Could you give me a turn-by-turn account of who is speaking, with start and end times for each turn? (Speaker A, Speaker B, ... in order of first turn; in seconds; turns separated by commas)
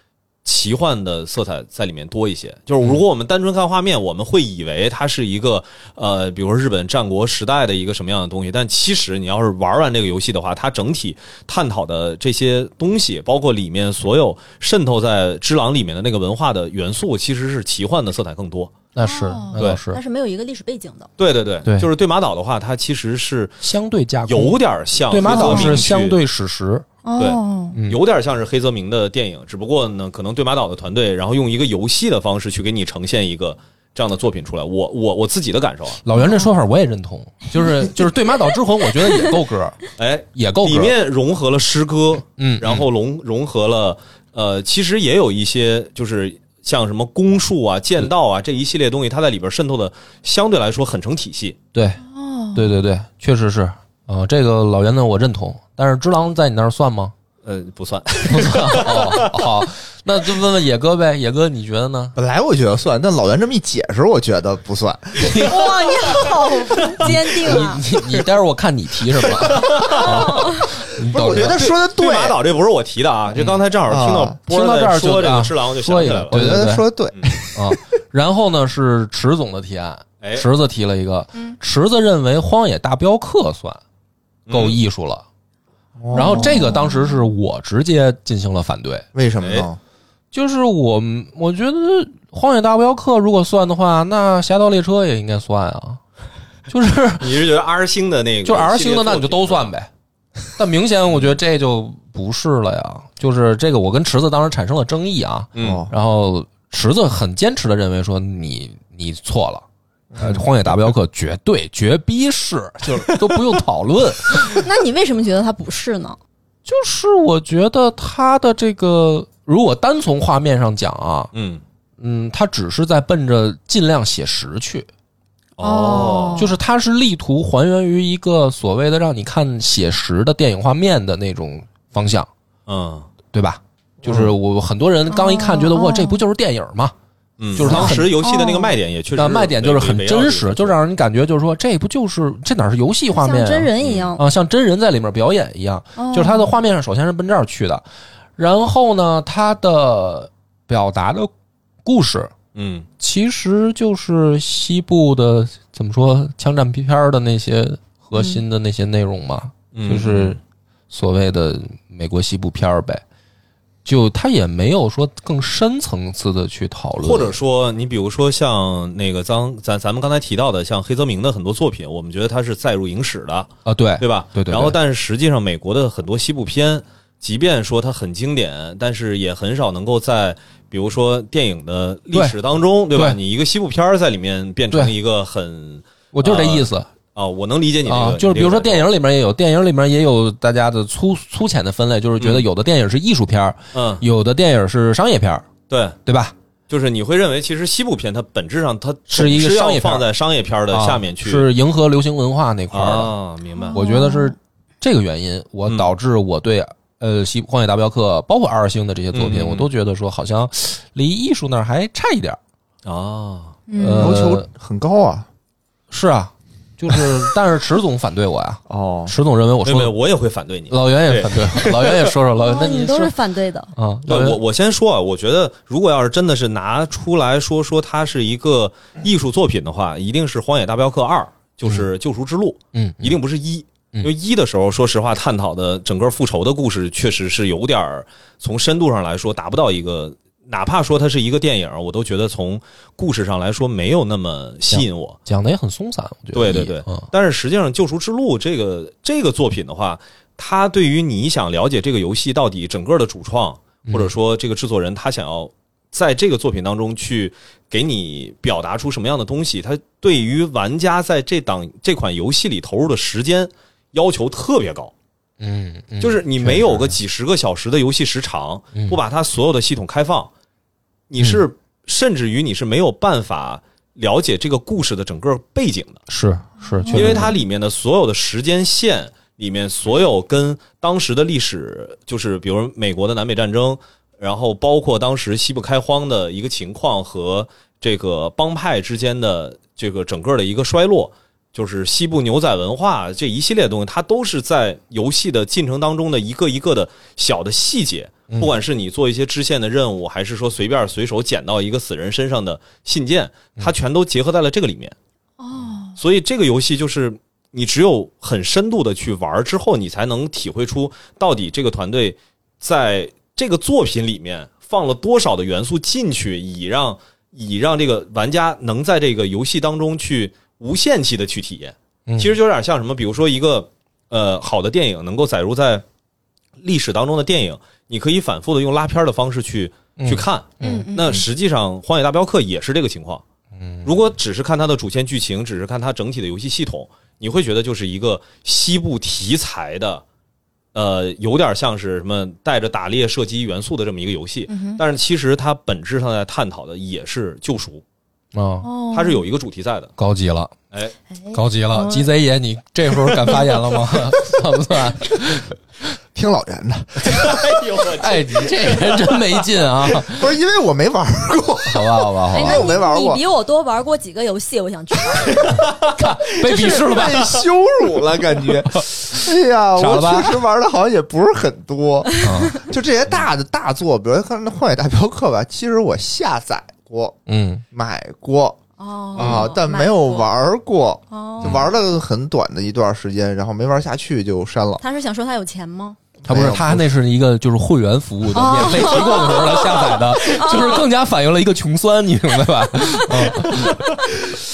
Speaker A: 0.4-18.7, Speaker B: 18.9-20.0, Speaker C: 19.0-21.1, Speaker A: 19.5-19.8, Speaker A: 21.2-23.6, Speaker B: 23.6-26.9, Speaker A: 24.2-26.2, Speaker C: 25.3-25.8, Speaker C: 27.0-27.8, Speaker A: 27.2-36.0, Speaker B: 27.7-28.0, Speaker B: 36.0-39.8, Speaker C: 36.2-36.5, Speaker A: 40.0-51.6, Speaker B: 40.3-40.9, Speaker B: 42.4-42.9, Speaker B: 51.7-52.0, Speaker C: 52.0-52.7, Speaker B: 52.5-57.1, Speaker A: 57.4-59.6, Speaker B: 58.2-62.1, Speaker D: 62.1-66.3, Speaker C: 65.3-67.8, Speaker B: 66.9-71.6, Speaker A: 69.3-70.4, Speaker C: 70.2-70.7, Speaker D: 71.0-72.4, Speaker A: 71.1-76.5, Speaker D: 73.9-74.4, Speaker B: 74.5-83.8, Speaker D: 76.3-77.4, Speaker A: 80.2-80.5, Speaker A: 84.5-84.8, Speaker B: 84.5-85.2, Speaker D: 86.0-86.7, Speaker B: 86.1-89.0, Speaker C: 86.1-87.1, Speaker D: 89.1-89.8, Speaker A: 89.4-89.7, Speaker B: 90.3-96.0, Speaker B: 96.7-97.4, Speaker A: 97.2-99.7, Speaker B: 98.4-99.9, Speaker B: 100.5-109.6, Speaker A: 105.5-105.9, Speaker D: 105.6-105.9, Speaker D: 110.1-110.4, Speaker B: 110.2-114.6, Speaker C: 114.5-116.2, Speaker B: 116.7-121.3, Speaker A: 121.3-121.6, Speaker B: 122.0-124.9, Speaker A: 125.6-126.5, Speaker C: 125.6-126.6, Speaker B: 126.3-132.3, Speaker A: 132.7-133.1, Speaker B: 133.3-136.9, Speaker D: 134.0-134.3, Speaker C: 135.1-136.2, Speaker A: 137.4-140.8, Speaker B: 137.5-138.1, Speaker D: 137.6-137.9, Speaker C: 137.7-138.8, Speaker B: 139.2-147.8, Speaker C: 143.1-144.2, Speaker A: 143.8-144.1, Speaker C: 146.0-146.5, Speaker B: 148.4-151.3, Speaker B: 151.8-152.3, Speaker A: 152.5-152.9, Speaker B: 153.0-160.4, Speaker A: 159.7-160.4, Speaker B: 160.9-163.0, Speaker B: 163.8-167.4, Speaker A: 167.0-188.9, Speaker B: 173.7-174.8, Speaker B: 186.1-186.9, Speaker B: 187.8-195.5, Speaker A: 192.2-192.4, Speaker A: 193.7-194.0, Speaker A: 195.7-196.0, Speaker B: 196.1-196.3, Speaker A: 196.7-201.5, Speaker B: 199.1-200.1, Speaker B: 200.7-203.1, Speaker A: 202.7-203.8, Speaker C: 203.5-204.3, Speaker B: 203.7-212.4, Speaker A: 209.1-209.7, Speaker A: 212.8-213.6, Speaker C: 213.7-214.2, Speaker B: 213.8-214.5, Speaker D: 213.9-215.3, Speaker B: 215.9-219.9, Speaker D: 218.7-219.1, Speaker A: 219.6-222.1, Speaker B: 220.7-223.1, Speaker C: 222.4-223.7, Speaker B: 223.7-224.4, Speaker A: 224.1-245.2, Speaker B: 232.7-233.2, Speaker B: 244.7-247.1, Speaker A: 246.3-264.9, Speaker B: 253.9-254.1, Speaker B: 265.4-266.9, Speaker A: 266.0-270.3, Speaker A: 271.1-276.0, Speaker B: 276.1-277.3, Speaker C: 276.6-277.2, Speaker A: 276.9-304.9, Speaker C: 305.4-306.0, Speaker A: 305.9-325.8, Speaker B: 322.1-322.3, Speaker A: 326.6-333.2, Speaker B: 330.0-331.1, Speaker C: 330.6-331.2, Speaker B: 333.6-333.9, Speaker A: 333.8-340.0, Speaker A: 340.7-347.8, Speaker C: 344.5-344.8, Speaker B: 348.3-348.7, Speaker C: 348.6-349.2, Speaker A: 348.9-349.9, Speaker B: 350.0-350.5, Speaker C: 351.1-352.1, Speaker B: 351.3-355.6, Speaker D: 356.1-357.6, Speaker A: 357.0-359.4, Speaker B: 357.9-360.3, Speaker D: 360.0-363.2, Speaker B: 361.7-362.6, Speaker C: 362.3-365.5, Speaker A: 365.4-365.9, Speaker B: 365.8-367.4, Speaker D: 366.4-377.2, Speaker A: 366.5-367.3, Speaker B: 368.6-368.8, Speaker B: 369.8-370.4, Speaker C: 372.2-372.6, Speaker B: 372.2-372.6, Speaker B: 377.3-377.6, Speaker D: 377.7-378.6, Speaker C: 378.8-380.3, Speaker D: 379.1-384.8, Speaker A: 379.2-379.5, Speaker C: 381.1-381.6, Speaker C: 384.8-386.0, Speaker D: 386.2-386.9, Speaker B: 386.2-393.8, Speaker C: 388.3-390.9, Speaker C: 392.9-393.4